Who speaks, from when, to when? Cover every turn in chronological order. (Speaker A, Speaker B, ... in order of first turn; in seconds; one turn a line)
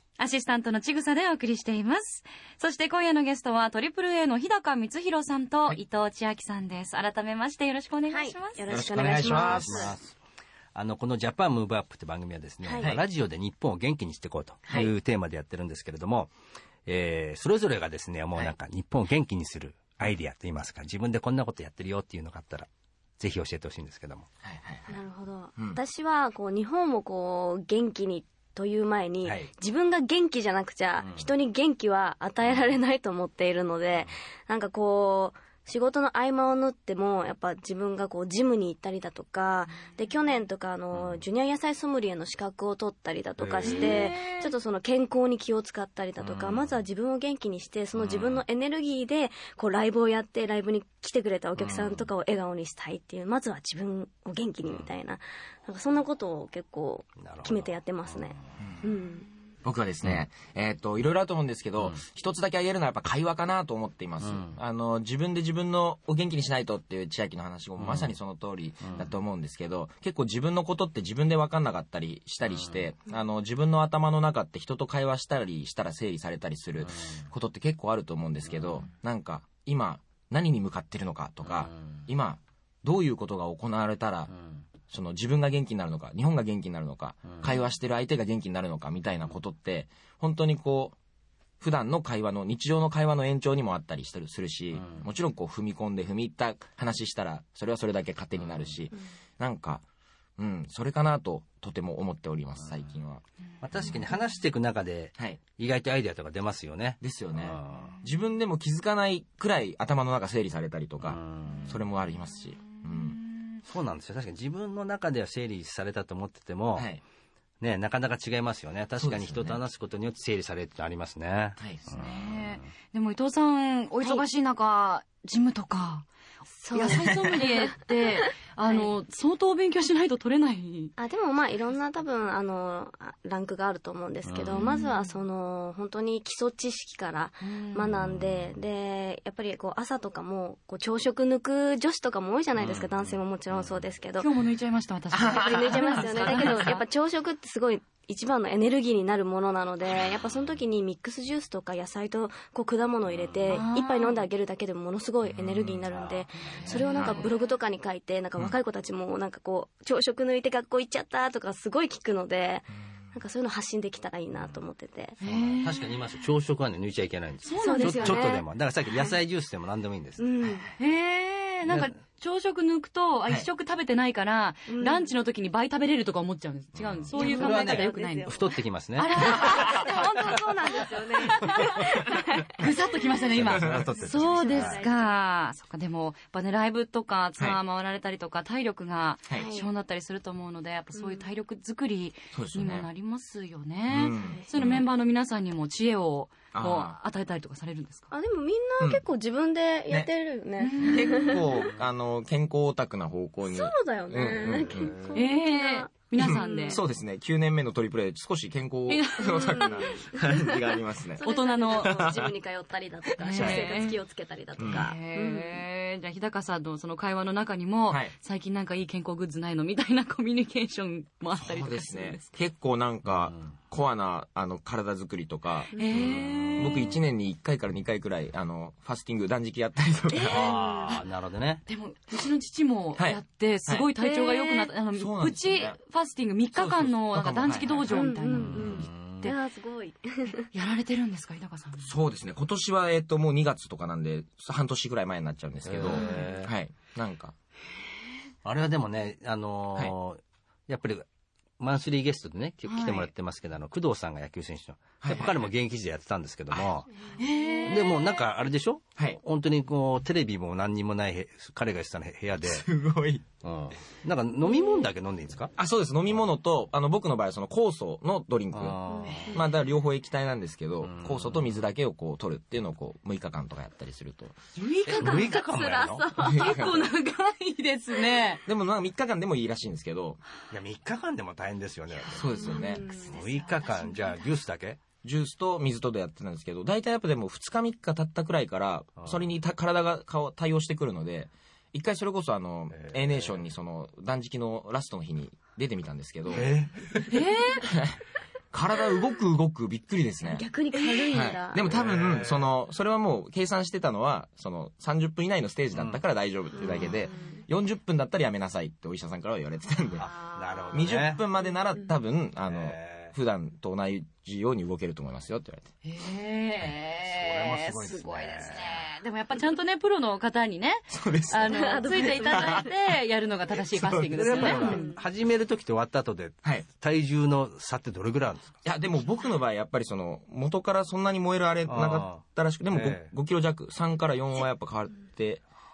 Speaker A: 0.2-8.7
Speaker B: 8.1-9.9
Speaker C: 8.7-9.9
Speaker D: 8.8-10.1
Speaker D: 10.8-16.3
Speaker B: 12.6-12.9
Speaker D: 16.9-22.7
Speaker D: 23.2-24.3
Speaker C: 24.4-25.0
Speaker B: 24.9-59.3
Speaker D: 29.2-29.5
Speaker D: 31.0-31.3
Speaker D: 40.9-41.2
Speaker D: 43.4-44.1
Speaker A: 43.6-44.5
Speaker D: 46.2-46.8
Speaker D: 47.9-48.4
Speaker D: 51.6-52.1
Speaker D: 57.2-58.4
Speaker C: 59.6-84.3
Speaker D: 64.2-64.6
Speaker D: 67.8-68.2
Speaker D: 68.8-69.1
Speaker D: 76.8-77.3
Speaker D: 78.5-78.8
Speaker D: 81.4-82.0
Speaker D: 84.3-84.6
Speaker C: 84.9-91.0
Speaker D: 87.2-87.5
Speaker C: 91.6-99.8
Speaker D: 94.7-95.0
Speaker C: 100.4-103.2
Speaker D: 103.6-108.0
Speaker C: 107.0-113.2
Speaker D: 111.0-111.8
Speaker A: 112.8-113.6
Speaker D: 113.6-116.9
Speaker C: 116.8-117.0
Speaker D: 117.6-122.7
Speaker C: 119.0-119.6
Speaker C: 121.6-121.9
Speaker A: 122.0-126.1
Speaker B: 126.5-127.8
Speaker A: 126.7-130.9
Speaker C: 126.9-127.4
Speaker B: 128.7-128.9
Speaker B: 131.0-144.3
Speaker D: 134.3-134.8
Speaker A: 134.5-135.1
Speaker A: 137.4-137.9
Speaker D: 137.8-138.6
Speaker D: 142.6-143.8
Speaker A: 144.2-146.8
Speaker C: 145.1-146.8
Speaker B: 145.2-165.2
Speaker D: 153.1-153.6
Speaker A: 153.5-154.2
Speaker D: 155.2-157.2
Speaker A: 156.5-157.5
Speaker A: 165.2-165.9
Speaker D: 165.2-170.2
Speaker A: 167.4-168.4
Speaker B: 167.6-168.4
Speaker B: 170.2-170.7
Speaker A: 170.8-178.4
Speaker B: 174.7-175.1
Speaker D: 176.8-179.8
Speaker B: 177.1-178.6
Speaker A: 179.0-180.0
Speaker B: 179.2-185.2
Speaker C: 179.4-179.8
Speaker A: 182.6-198.1
Speaker D: 183.3-184.8
Speaker C: 183.6-183.9
Speaker B: 189.3-189.7
Speaker B: 190.9-191.2
Speaker C: 192.3-192.9
Speaker C: 193.9-194.8
Speaker B: 194.2-194.5
Speaker C: 196.5-197.0
Speaker B: 198.1-201.7
Speaker A: 200.6-201.4
Speaker C: 200.8-205.0
Speaker B: 203.4-206.8
Speaker D: 204.4-204.7
Speaker A: 205.1-206.8
Speaker C: 206.2-212.3
Speaker A: 208.9-209.9
Speaker B: 209.4-215.6
Speaker A: 211.2-212.1
Speaker A: 213.2-214.0
Speaker C: 213.3-213.7
Speaker C: 214.6-214.9
Speaker A: 214.6-222.3
Speaker C: 221.4-230.5
Speaker D: 223.1-223.5
Speaker A: 225.7-226.8
Speaker B: 225.7-226.2
Speaker D: 226.1-227.0
Speaker B: 230.1-231.0
Speaker D: 230.3-231.6
Speaker A: 231.7-239.3
Speaker C: 233.0-233.9
Speaker B: 234.0-234.7
Speaker C: 234.9-235.8
Speaker C: 236.5-238.6
Speaker B: 237.9-240.4
Speaker D: 238.3-239.3
Speaker A: 240.4-241.9
Speaker C: 241.8-247.3
Speaker D: 245.6-246.5
Speaker A: 246.0-246.3
Speaker D: 248.4-251.1
Speaker D: 251.6-257.1
Speaker A: 252.7-253.1
Speaker C: 255.0-255.5
Speaker B: 257.0-257.9
Speaker A: 257.2-258.2
Speaker D: 257.6-262.7
Speaker C: 262.4-263.2
Speaker D: 263.4-265.5
Speaker B: 264.5-264.8
Speaker C: 265.6-274.4
Speaker D: 268.5-269.3
Speaker B: 268.9-269.5
Speaker A: 269.1-269.4
Speaker D: 270.8-271.6
Speaker A: 274.5-275.4
Speaker D: 274.9-276.1
Speaker B: 274.9-276.8
Speaker C: 276.2-276.9
Speaker A: 276.2-278.4
Speaker C: 278.4-280.2
Speaker D: 280.5-284.8
Speaker C: 282.1-282.8
Speaker B: 282.4-284.3
Speaker A: 282.5-283.2
Speaker C: 285.0-297.1
Speaker D: 289.0-289.3
Speaker D: 292.7-293.5
Speaker D: 296.3-296.9
Speaker A: 297.1-297.6
Speaker C: 297.6-298.0
Speaker C: 298.5-300.4
Speaker B: 300.2-301.6
Speaker A: 300.7-301.3
Speaker C: 301.1-310.1
Speaker D: 301.6-302.5
Speaker D: 305.7-306.0
Speaker B: 306.6-307.4
Speaker B: 310.0-311.0
Speaker D: 310.3-311.2
Speaker C: 310.7-315.7
Speaker D: 312.4-313.1
Speaker A: 315.8-324.9
Speaker D: 317.1-318.8
Speaker C: 320.9-322.7
Speaker B: 321.4-322.7
Speaker C: 323.7-324.7
Speaker D: 324.1-328.6
Speaker B: 324.3-325.0
Speaker C: 328.6-335.4
Speaker D: 331.7-333.1